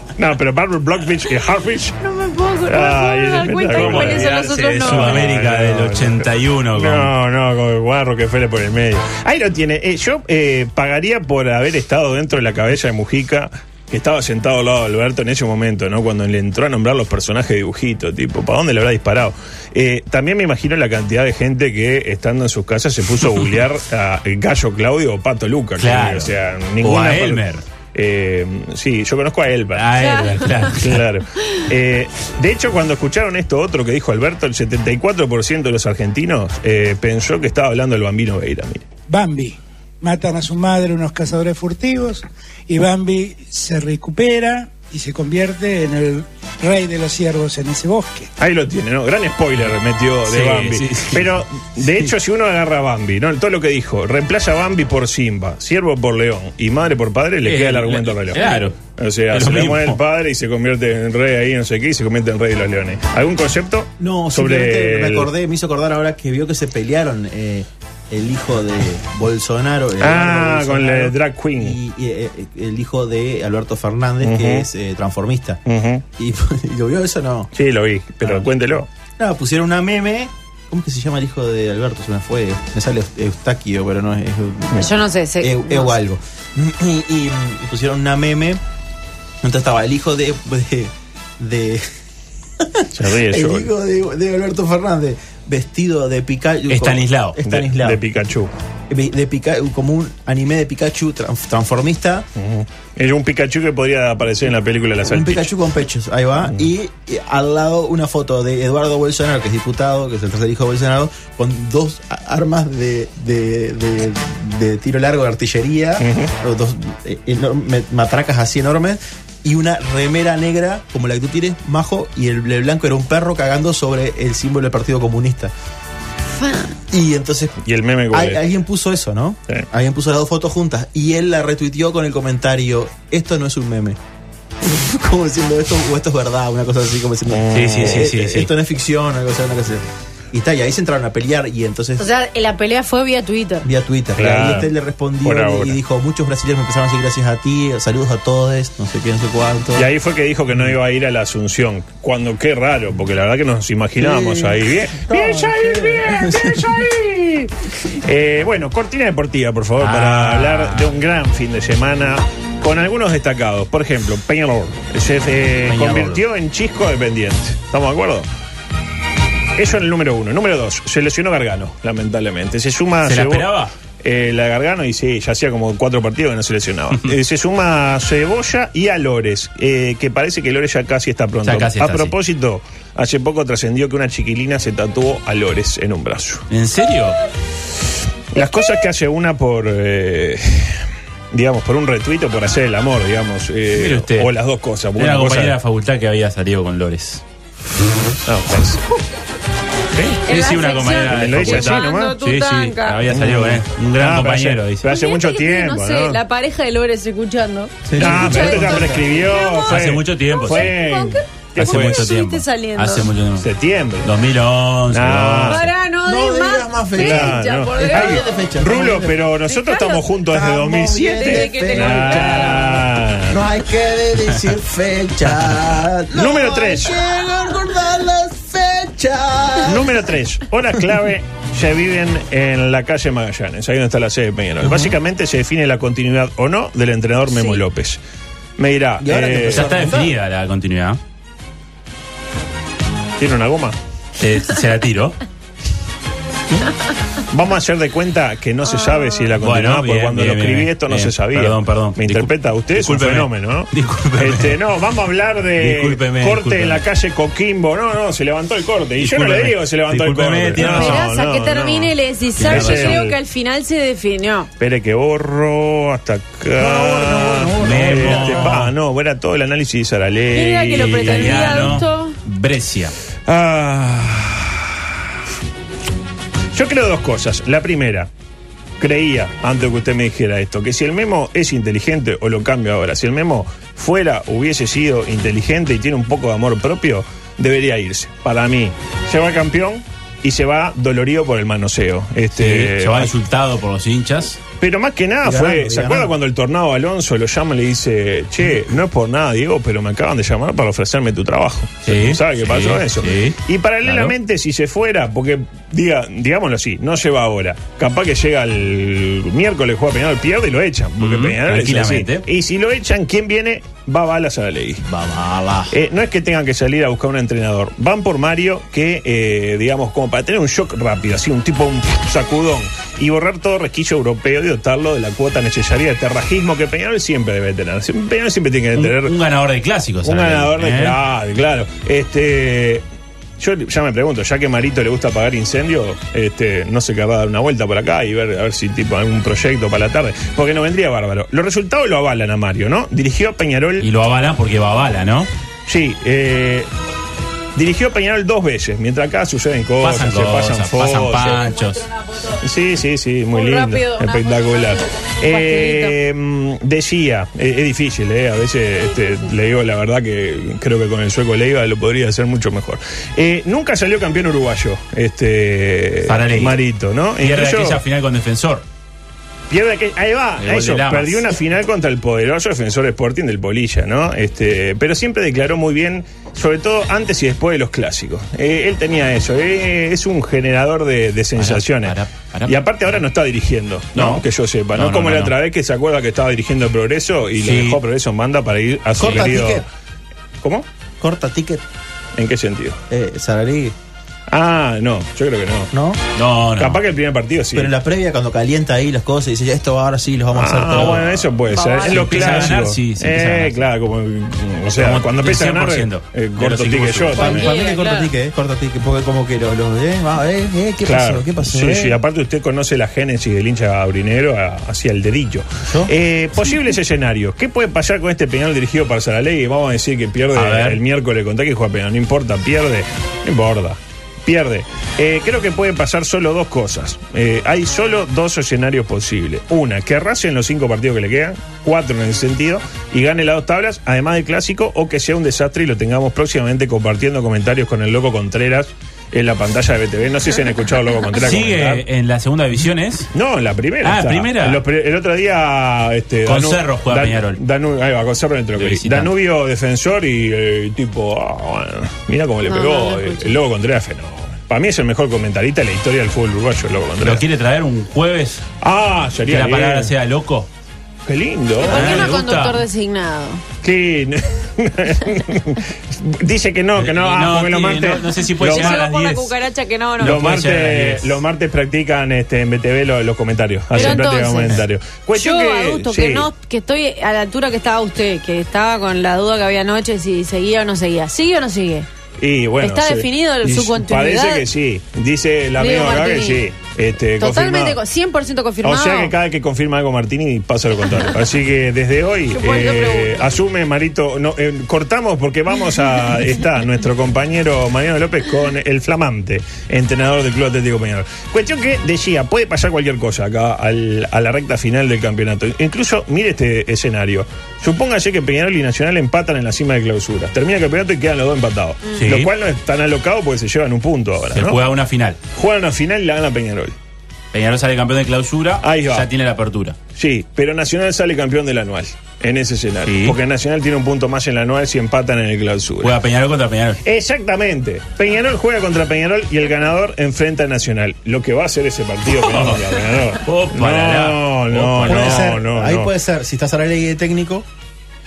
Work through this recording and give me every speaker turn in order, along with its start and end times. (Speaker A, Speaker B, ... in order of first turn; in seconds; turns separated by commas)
Speaker A: 0.2-2.0, Speaker B: 2.0-5.3, Speaker A: 2.6-29.9, Speaker C: 3.7-7.1, Speaker C: 25.8-27.6, Speaker C: 29.7-31.0, Speaker B: 30.0-30.7, Speaker A: 30.8-38.8, Speaker D: 39.1-48.3, Speaker A: 48.4-65.3, Speaker C: 50.3-51.3, Speaker C: 57.4-58.8, Speaker C: 59.3-60.0, Speaker E: 64.0-75.6, Speaker A: 70.0-71.8, Speaker A: 74.2-74.7, Speaker A: 75.7-76.0, Speaker E: 76.2-77.5, Speaker A: 77.5-78.9, Speaker E: 79.2-88.6, Speaker B: 84.7-85.9, Speaker E: 89.4-91.8, Speaker E: 92.6-98.0, Speaker A: 92.9-93.7, Speaker C: 96.7-97.4, Speaker A: 97.4-98.5, Speaker E: 98.9-102.2, Speaker A: 102.3-105.5, Speaker E: 105.0-125.5, Speaker A: 116.0-116.3, Speaker B: 126.3-126.8, Speaker E: 126.9-134.0, Speaker A: 127.6-128.4, Speaker E: 134.6-142.1, Speaker A: 137.3-138.1, Speaker C: 137.5-138.5, Speaker B: 142.0-143.7, Speaker E: 143.6-149.9, Speaker A: 144.2-144.7, Speaker A: 145.2-145.8, Speaker A: 149.7-168.3, Speaker E: 154.0-156.8, Speaker C: 159.8-160.9, Speaker C: 165.7-166.2, Speaker A: 169.6-186.4, Speaker C: 173.0-173.7, Speaker C: 181.4-182.1, Speaker C: 186.5-187.2, Speaker A: 188.3-195.6, Speaker C: 193.7-194.3, Speaker C: 195.0-197.2, Speaker A: 198.2-198.8, Speaker B: 200.2-203.0, Speaker C: 200.2-204.8, Speaker A: 201.1-202.2, Speaker A: 203.1-206.2, Speaker B: 204.8-213.1, Speaker E: 207.8-209.3, Speaker A: 208.0-212.1, Speaker C: 209.7-210.7, Speaker C: 211.6-213.5, Speaker A: 213.4-214.1, Speaker C: 214.0-215.7, Speaker A: 214.9-215.7, Speaker B: 215.5-218.2, Speaker E: 216.0-219.2, Speaker A: 216.9-223.4, Speaker B: 219.5-220.0, Speaker E: 220.3-229.9, Speaker B: 221.2-222.8, Speaker A: 226.1-227.0, Speaker A: 229.6-238.0, Speaker E: 234.6-234.9, Speaker A: 238.6-239.7, Speaker E: 239.0-240.1, Speaker C: 239.5-241.0, Speaker A: 243.2-243.8, Speaker C: 244.2-245.2, Speaker A: 247.3-263.2, Speaker B: 248.7-249.2, Speaker C: 249.4-254.6, Speaker C: 255.6-256.8, Speaker C: 259.0-261.0, Speaker B: 260.6-264.5, Speaker C: 262.4-263.0, Speaker A: 264.6-271.8, Speaker E: 266.5-268.7, Speaker C: 267.6-268.7, Speaker B: 270.3-272.2, Speaker C: 270.8-272.9, Speaker A: 273.2-275.1, Speaker A: 276.5-278.1, Speaker A: 278.8-293.1, Speaker C: 292.3-294.4, Speaker A: 294.6-314.8, Speaker E: 295.2-296.1, Speaker C: 301.8-304.1, Speaker C: 311.0-312.2, Speaker C: 314.9-315.7, Speaker A: 315.7-329.1, Speaker C: 328.8-331.0, Speaker A: 330.0-332.8, Speaker A: 333.4-343.9, Speaker C: 343.8-345.3, Speaker A: 345.7-346.7, Speaker A: 347.5-351.4, Speaker C: 349.8-351.9, Speaker B: 351.2-352.4, Speaker A: 352.4-367.8, Speaker B: 353.3-355.9, Speaker B: 358.9-359.2, Speaker C: 366.0-366.6, Speaker C: 367.2-368.6, Speaker A: 369.5-381.9, Speaker C: 370.4-371.2, Speaker C: 381.4-382.9, Speaker A: 382.5-389.6, Speaker C: 383.9-385.3, Speaker C: 387.4-387.8, Speaker E: 389.0-389.6, Speaker A: 390.4-390.7, Speaker E: 391.0-391.6, Speaker A: 392.1-392.8, Speaker E: 392.9-393.7, Speaker A: 394.3-395.7, Speaker E: 395.7-396.0, Speaker C: 396.1-396.8, Speaker A: 396.6-397.7, Speaker E: 397.5-401.2, Speaker A: 400.3-407.5, Speaker C: 400.7-401.0, Speaker B: 401.5-402.5, Speaker C: 401.8-403.6, Speaker C: 404.8-407.4, Speaker B: 407.2-408.1, Speaker E: 407.2-412.0, Speaker A: 410.8-441.8, Speaker E: 415.7-415.9, Speaker C: 420.3-420.8, Speaker C: 441.2-443.1, Speaker A: 443.1-457.2, Speaker C: 443.8-444.6, Speaker C: 446.2-447.4, Speaker C: 448.6-449.1, Speaker B: 452.4-453.4, Speaker C: 457.0-458.4, Speaker A: 458.6-459.9, Speaker C: 459.2-460.5, Speaker A: 461.1-462.1, Speaker B: 461.6-463.4, Speaker C: 461.7-462.6, Speaker A: 463.6-468.9, Speaker C: 466.8-469.3, Speaker B: 468.4-470.2, Speaker C: 470.0-471.2, Speaker A: 470.0-476.3, Speaker C: 473.7-474.0, Speaker B: 473.7-474.6, Speaker B: 475.2-481.9, Speaker A: 482.2-487.8, Speaker B: 482.6-484.4, Speaker B: 485.6-486.4, Speaker B: 487.2-489.1, Speaker A: 488.6-514.6, Speaker B: 492.3-493.3, Speaker C: 512.0-512.3, Speaker C: 514.3-515.2, Speaker A: 515.3-516.7, Speaker C: 517.3-519.8, Speaker A: 518.6-519.1, Speaker A: 520.0-526.0, Speaker C: 522.8-523.1, Speaker C: 525.8-526.8, Speaker A: 526.8-535.9, Speaker C: 532.1-532.7, Speaker C: 533.2-535.3, Speaker E: 534.8-537.5